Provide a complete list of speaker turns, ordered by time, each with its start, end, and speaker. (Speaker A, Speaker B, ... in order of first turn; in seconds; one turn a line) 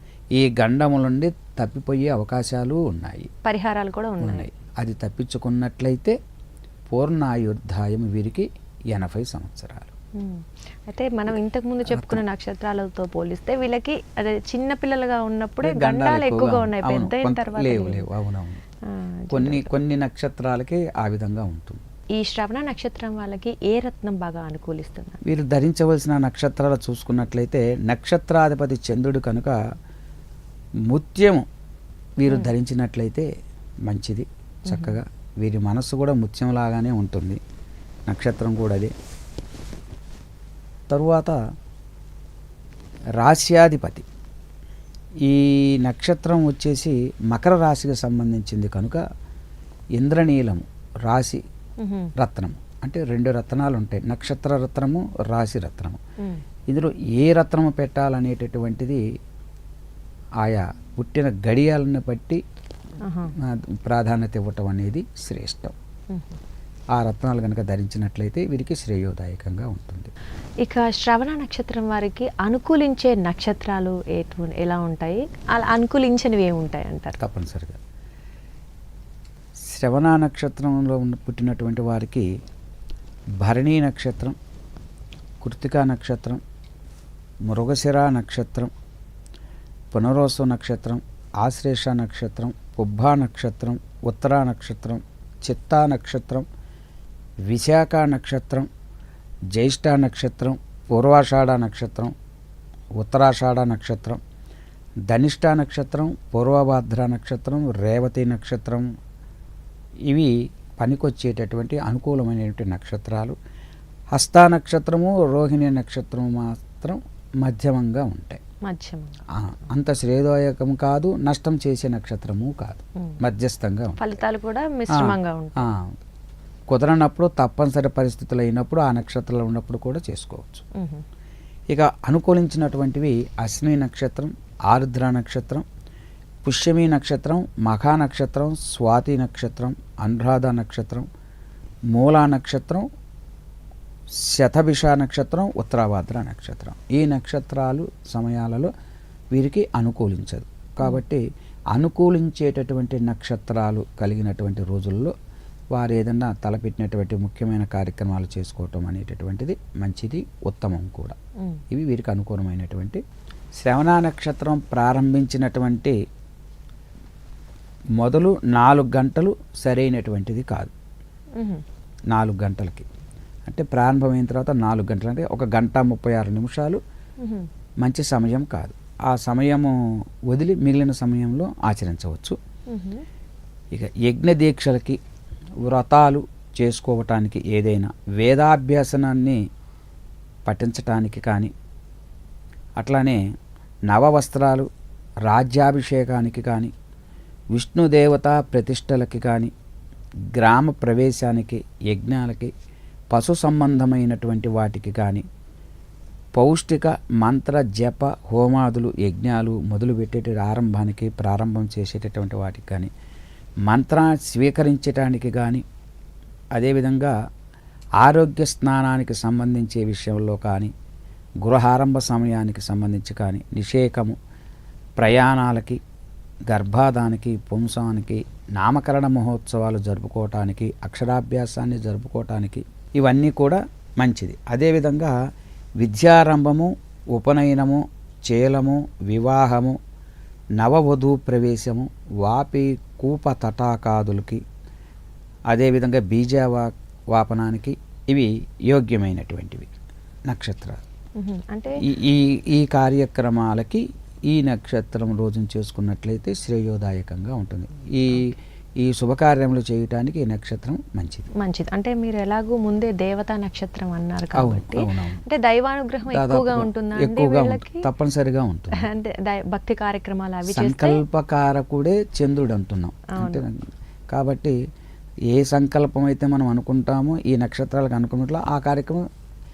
Speaker A: 0.3-3.3
Speaker B: 3.4-4.5
Speaker A: 4.2-6.2
Speaker A: 6.9-9.9
Speaker B: 10.2-18.0
Speaker A: 11.8-12.2
Speaker A: 15.6-18.6
Speaker B: 18.9-19.8
Speaker A: 19.3-21.8
Speaker B: 22.2-25.2
Speaker A: 25.2-29.6
Speaker A: 30.9-31.5
Speaker A: 32.2-33.3
Speaker B: 32.3-32.5
Speaker A: 33.9-37.4
Speaker B: 34.7-34.9
Speaker A: 38.1-38.9
Speaker A: 40.9-41.4
Speaker A: 43.2-44.0
Speaker A: 45.2-49.0
Speaker A: 50.0-51.4
Speaker B: 51.8-52.1
Speaker A: 52.1-56.0
Speaker A: 56.7-59.0
Speaker A: 60.4-62.4
Speaker B: 63.0-63.3
Speaker A: 63.3-65.7
Speaker B: 66.1-66.4
Speaker A: 67.0-70.1
Speaker B: 70.6-77.2
Speaker A: 77.2-77.8
Speaker A: 79.7-82.2
Speaker A: 83.4-84.4
Speaker A: 85.4-86.4
Speaker A: 87.5-88.7
Speaker A: 89.9-96.5
Speaker A: 97.5-98.7
Speaker A: 99.5-102.1
Speaker A: 103.0-104.2
Speaker A: 105.1-108.8
Speaker A: 110.1-113.4
Speaker A: 114.1-118.4
Speaker B: 118.7-119.2
Speaker A: 119.3-124.1
Speaker B: 124.0-125.7
Speaker A: 124.9-125.9
Speaker A: 126.7-130.6
Speaker B: 130.7-131.0
Speaker A: 131.7-135.6
Speaker A: 136.4-141.1
Speaker A: 141.9-142.8
Speaker A: 144.2-148.7
Speaker A: 149.3-155.1
Speaker A: 155.7-161.2
Speaker A: 161.7-163.0
Speaker A: 163.6-165.9
Speaker A: 168.0-170.7
Speaker B: 171.3-171.6
Speaker A: 172.1-172.9
Speaker A: 173.5-176.8
Speaker B: 177.2-177.5
Speaker A: 177.8-179.8
Speaker A: 180.3-182.4
Speaker B: 182.7-183.0
Speaker A: 183.7-185.0
Speaker A: 185.6-189.4
Speaker A: 190.4-191.5
Speaker A: 192.8-193.2
Speaker A: 193.9-194.7
Speaker A: 195.3-196.7
Speaker A: 197.5-199.5
Speaker A: 200.3-202.5
Speaker A: 203.1-205.2
Speaker A: 206.3-212.9
Speaker A: 213.7-215.6
Speaker A: 216.6-217.1
Speaker A: 218.0-220.7
Speaker A: 221.4-224.2
Speaker A: 225.0-225.8
Speaker A: 226.5-235.1
Speaker A: 235.8-239.8
Speaker A: 240.6-244.4
Speaker A: 245.5-249.7
Speaker A: 250.3-250.8
Speaker B: 251.2-251.8
Speaker A: 251.8-261.3
Speaker B: 261.3-267.9
Speaker A: 264.3-265.2
Speaker A: 266.1-268.9
Speaker B: 268.7-271.0
Speaker A: 270.4-274.6
Speaker B: 273.1-273.4
Speaker A: 275.3-279.1